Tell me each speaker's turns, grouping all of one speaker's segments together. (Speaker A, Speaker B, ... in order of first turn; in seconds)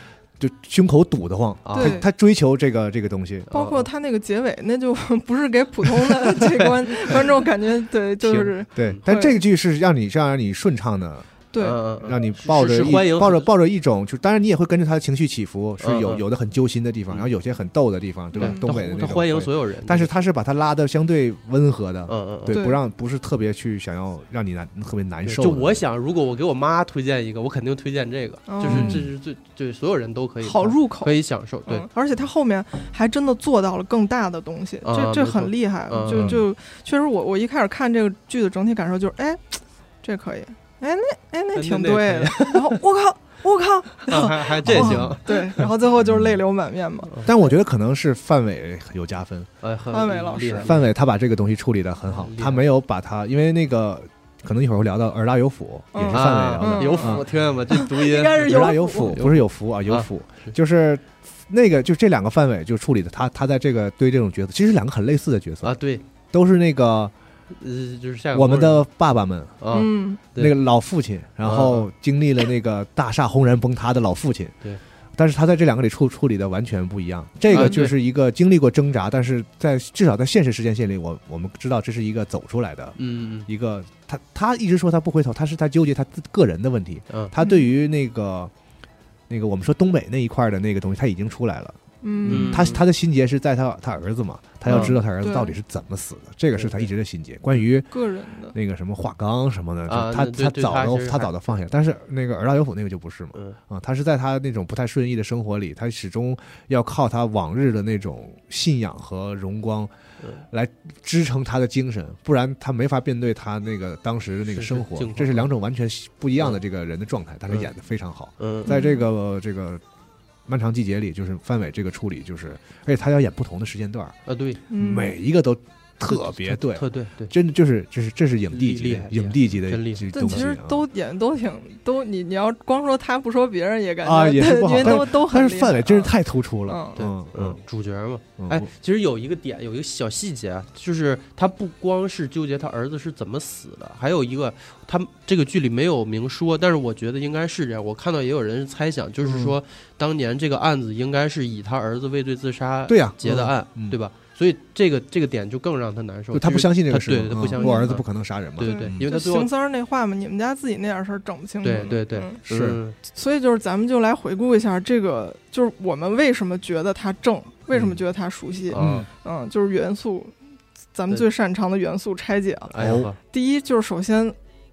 Speaker A: 0.4-3.5, 8.8-11.4, 12.0-25.8, 28.6-29.1, 36.1-36.4, 44.7-45.2, 46.0-46.4, 47.2-49.5, 50.6-57.2, 58.4-65.7, 66.3-67.1, 68.3-69.6, 70.4-74.6, 75.2-88.5, 89.3-97.9, 98.5-109.9, 110.5-119.8, 120.5-124.2, 124.8-130.9, 134.0-137.6, 138.4-138.7, 149.2-149.5, 152.9-154.0, 156.3-159.0, 161.8-162.8, 168.8-169.1, 172.8-173.1
Speaker B: 1.6-2.0, 3.5-3.8, 8.2-9.0, 11.6-13.5, 15.8-16.2, 18.4-20.1, 22.1-22.6, 25.2-31.9, 34.8-36.4, 41.5-42.8, 44.1-45.6, 49.6-50.9, 52.1-52.7, 56.1-60.5, 65.6-66.0, 67.5-68.8, 69.6-70.5, 71.4-71.9, 77.5-78.0, 83.0-83.5, 92.2-92.8, 94.7-95.0, 96.5-96.9, 99.9-101.6, 114.5-115.5, 118.4-118.8, 124.2-124.6, 126.1-127.3, 128.5-130.5, 136.9-159.5, 161.6-163.0, 168.7-169.1, 172.7-173.2
Speaker C: 1.8-2.1, 3.5-9.4, 11.5-11.8, 18.4-18.8, 22.5-22.8, 28.5-29.1, 30.4-47.5, 49.9-50.7, 55.9-59.2, 69.7-70.2, 77.5-77.8, 87.4-87.7, 92.0-92.7, 94.7-95.6, 97.9-98.5, 118.7-119.0, 124.7-125.2, 130.1-136.1, 136.7-137.0, 157.6-157.9, 158.6-162.4, 163.0-170.3, 170.9-174.4